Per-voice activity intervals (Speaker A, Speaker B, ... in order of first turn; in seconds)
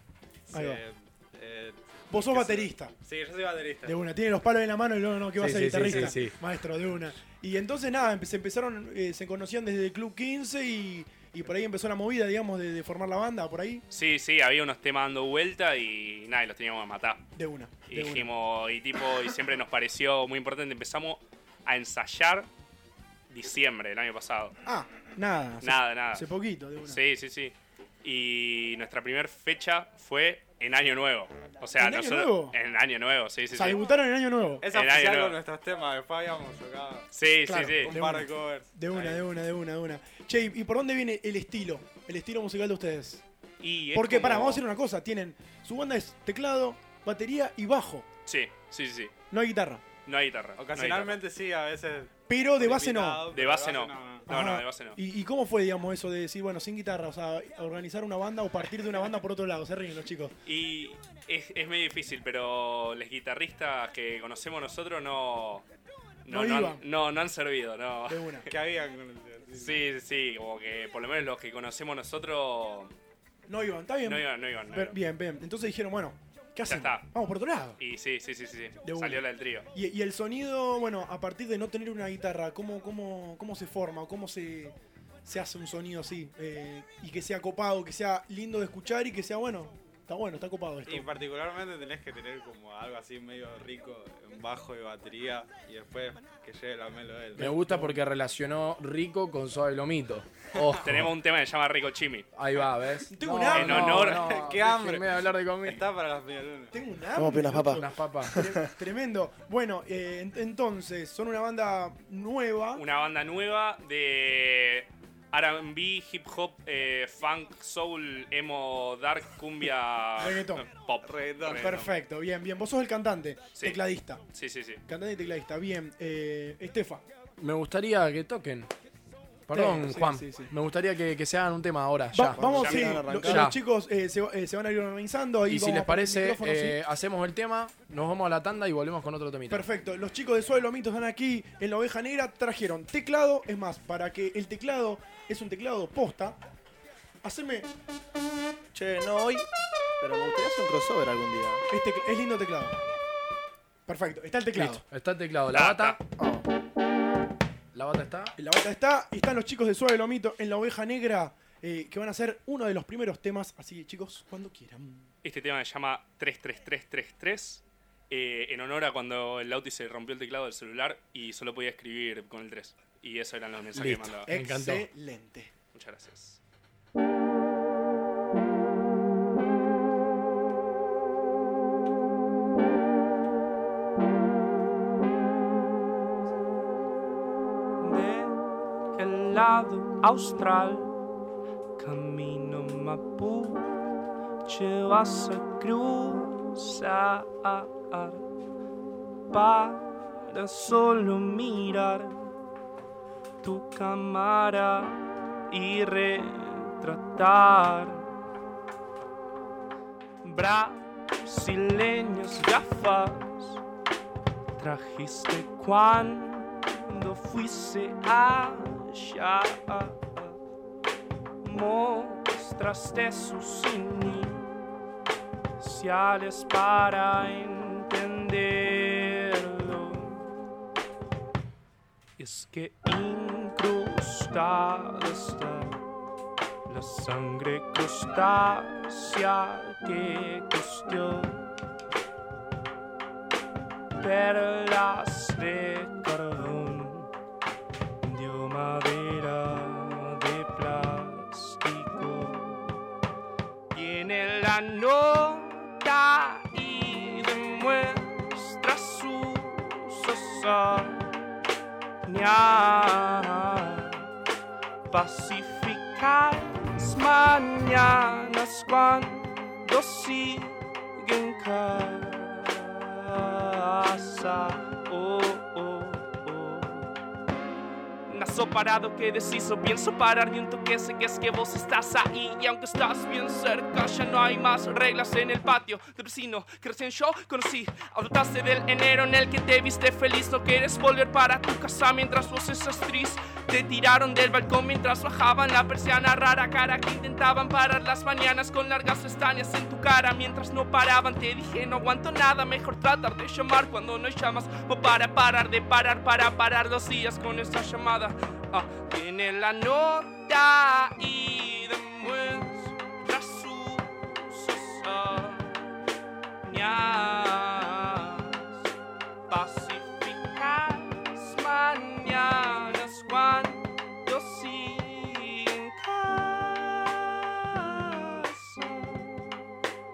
Speaker A: 0.5-4.0, 34.6-37.1, 37.8-39.3, 50.6-54.3, 68.5-69.8, 90.9-97.5, 100.5-100.8, 104.2-106.7, 121.0-121.9
Speaker B: 0.5-0.8, 2.1-2.9, 3.9-13.8, 17.4-18.3, 24.6-27.0, 31.8-32.6, 33.5-34.7, 37.5-43.2, 43.9-48.1, 49.3-49.8, 52.3-53.3, 54.3-60.4, 66.3-66.8, 68.1-68.5, 73.5-77.8, 78.8-84.8, 85.3-91.1, 97.4-98.0, 103.1-104.2, 106.7-112.8, 120.2-120.7, 121.6-124.2, 124.9-127.0, 129.5-130.5, 132.1-136.8, 139.5-146.4, 147.2-147.7, 151.7-152.8, 153.9-154.8, 158.4-165.1, 173.8-175.5
Speaker C: 5.4-6.4, 97.4-101.1, 102.3-105.8, 107.7-108.4, 127.4-128.7, 129.5-132.5, 133.1-133.6, 135.5-139.7, 154.6-156.0, 157.7-158.3, 174.3-174.9
Speaker D: 13.9-17.2, 17.9-22.5, 23.3-24.5, 25.6-26.2, 26.9-33.8, 34.7-35.4, 37.1-38.0, 43.6-44.6, 48.3-49.1, 50.1-51.2, 53.3-55.0, 60.5-65.7, 66.2-68.2, 69.6-72.9, 74.1-75.0, 76.7-77.1, 77.8-79.7, 100.8-102.3, 103.5-104.3, 112.8-121.9, 124.3-124.8, 132.6-133.1, 155.5-156.0, 165.2-174.3, 175.7-176.4
Speaker E: 107.2-108.6, 132.3-133.4, 148.7-149.5, 150.0-151.6, 156.2-156.4
Speaker F: 187.8-188.4, 188.9-190.9, 191.8-193.7, 194.4-198.2, 199.3-202.3, 203.4-208.1, 210.2-213.6, 214.6-220.4, 221.4-224.5, 225.6-230.3, 232.2-235.8, 236.7-241.5, 244.0-247.1, 248.0-252.8, 253.7-261.1, 262.0-264.1, 264.9-276.9, 278.1-315.7, 316.4-318.6, 319.3-329.2